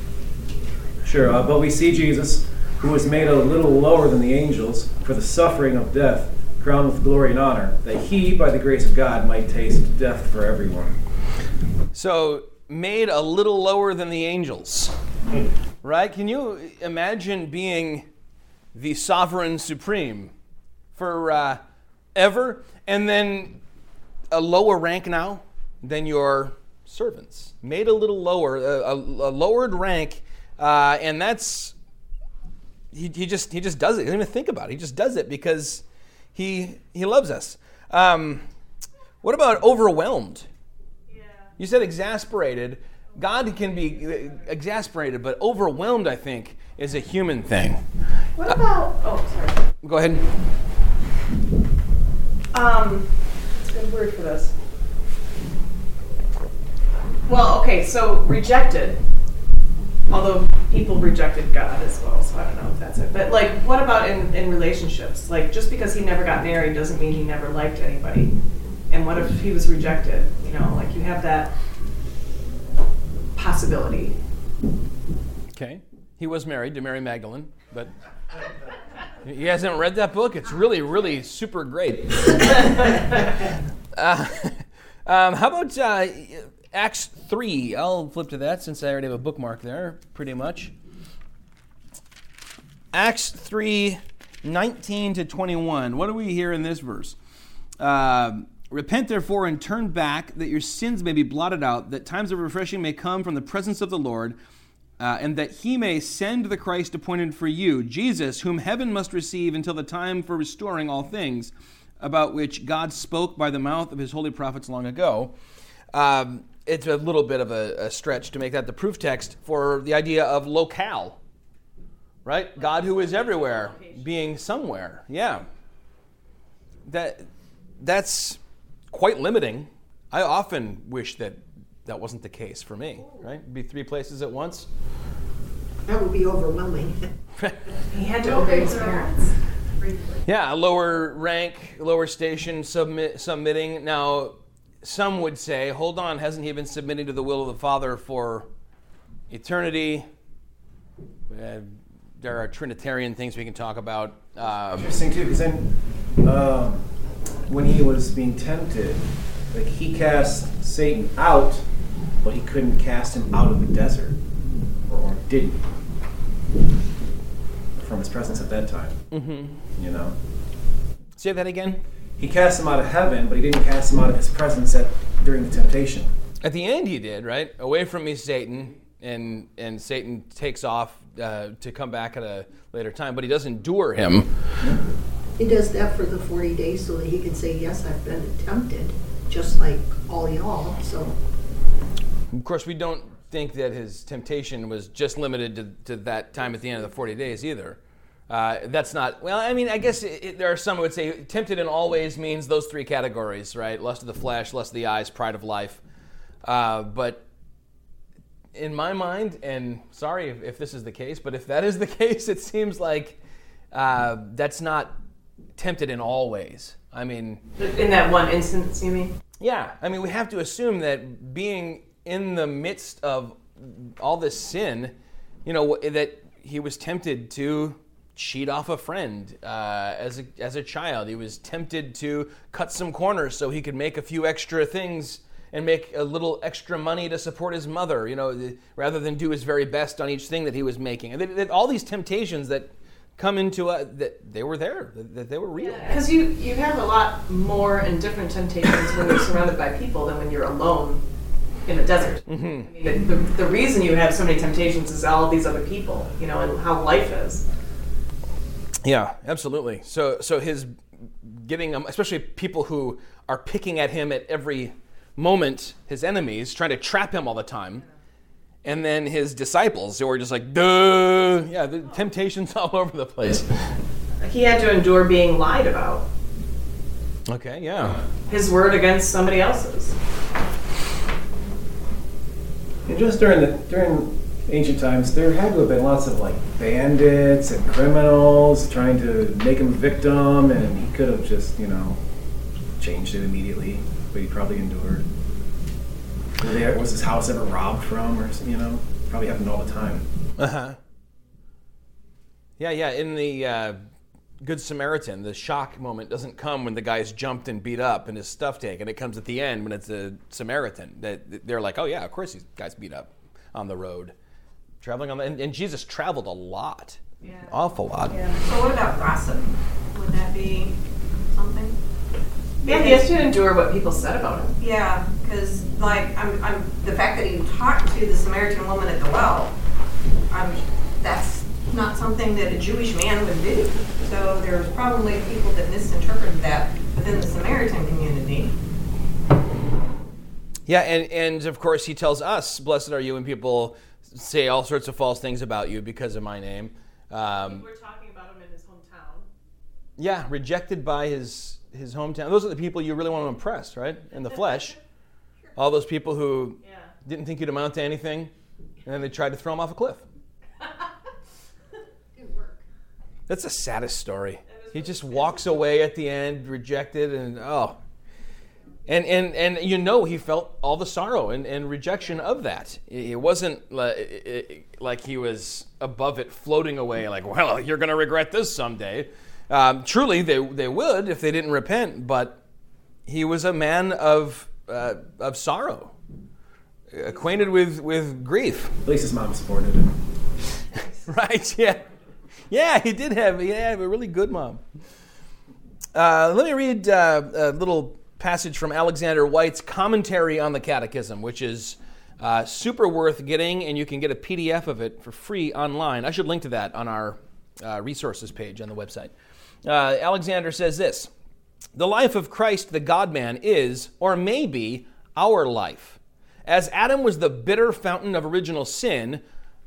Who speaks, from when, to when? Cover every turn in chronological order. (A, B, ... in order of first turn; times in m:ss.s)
0:01.0-0:11.0 A
0:11.9-0:14.9 B
0:15.8-0:18.1 B
0:18.7-0:20.3 B
0:20.9-0:21.6 B
0:22.1-0:23.6 B
0:24.3-0:31.7 B
0:32.9-0:35.8 B
0:36.3-0:38.4 B
0:39.2-0:40.5 B
0:41.1-0:41.5 C
0:41.6-0:47.8 B
0:43.6-0:44.0 C
0:48.4-0:49.7 C
0:49.8-0:50.3 B
0:52.5-0:54.5 C
0:57.2-0:59.0 C
1:00.1-1:08.3 C
1:08.9-1:11.5 C
1:13.3-1:14.1 C
1:15.5-1:17.9 B
1:19.2-1:23.1 B
1:23.9-1:30.7 B
1:32.9-1:37.2 B
1:37.8-1:44.4 B
1:45.0-1:55.3 B
1:55.9-2:01.2 B
2:02.2-2:05.4 B
2:02.6-2:04.0 C
2:06.8-2:07.3 B
2:07.8-2:14.7 B
2:15.8-2:17.1 D
2:17.9-2:19.3 C
2:18.2-2:19.2 D
2:19.7-2:20.2 D
2:20.2-2:28.5 B
2:29.3-2:30.1 B
2:31.3-2:34.9 B
2:34.7-2:36.9 A
2:37.4-2:41.6 A
2:42.2-2:44.2 A
2:44.9-2:45.6 A
2:47.8-2:49.0 A
2:49.1-2:49.6 B
2:49.7-2:50.2 A
2:51.2-2:51.8 B
2:52.2-2:56.1 A
2:56.4-3:04.3 B
3:05.4-3:11.2 D
3:12.3-3:25.8 B
3:26.4-3:27.2 B
3:28.5-3:33.2 B
3:33.7-3:35.0 B
3:35.6-3:37.4 B
3:37.6-3:39.1 C
3:39.4-3:44.9 B
3:45.4-4:06.0 B
4:05.6-4:11.0 C
4:11.6-4:17.4 C
4:12.2-4:12.7 B
4:18.8-4:27.8 B
4:28.6-4:33.7 B
4:34.2-4:36.0 C
4:37.3-4:38.0 B
4:38.3-4:40.0 C
4:42.8-4:52.0 A
4:52.8-4:55.0 A
4:56.4-5:00.0 A
5:00.4-5:00.8 B
5:02.6-5:03.8 B
5:04.4-5:14.1 B
5:14.8-5:18.2 B
5:17.2-5:17.6 C
5:18.1-5:18.4 C
5:18.4-5:20.8 E
5:21.3-5:21.8 E
5:22.6-5:23.1 E
5:22.6-5:24.5 C
5:24.6-5:29.5 E
5:30.3-5:38.5 E
5:40.7-5:47.6 B
5:47.4-5:49.3 C
5:50.0-5:54.8 B
5:55.6-5:58.3 B
5:56.6-5:56.9 C
5:58.8-6:00.0 B
6:02.1-6:02.6 D
6:03.3-6:07.8 B
6:04.5-6:05.4 C
6:08.9-6:22.4 B
6:23.1-6:25.9 B
6:26.9-6:28.7 B
6:28.8-6:29.9 A
6:30.9-6:31.8 B
6:32.5-6:34.6 B
6:35.9-6:49.1 B
6:49.6-6:51.1 B
6:51.7-6:59.2 B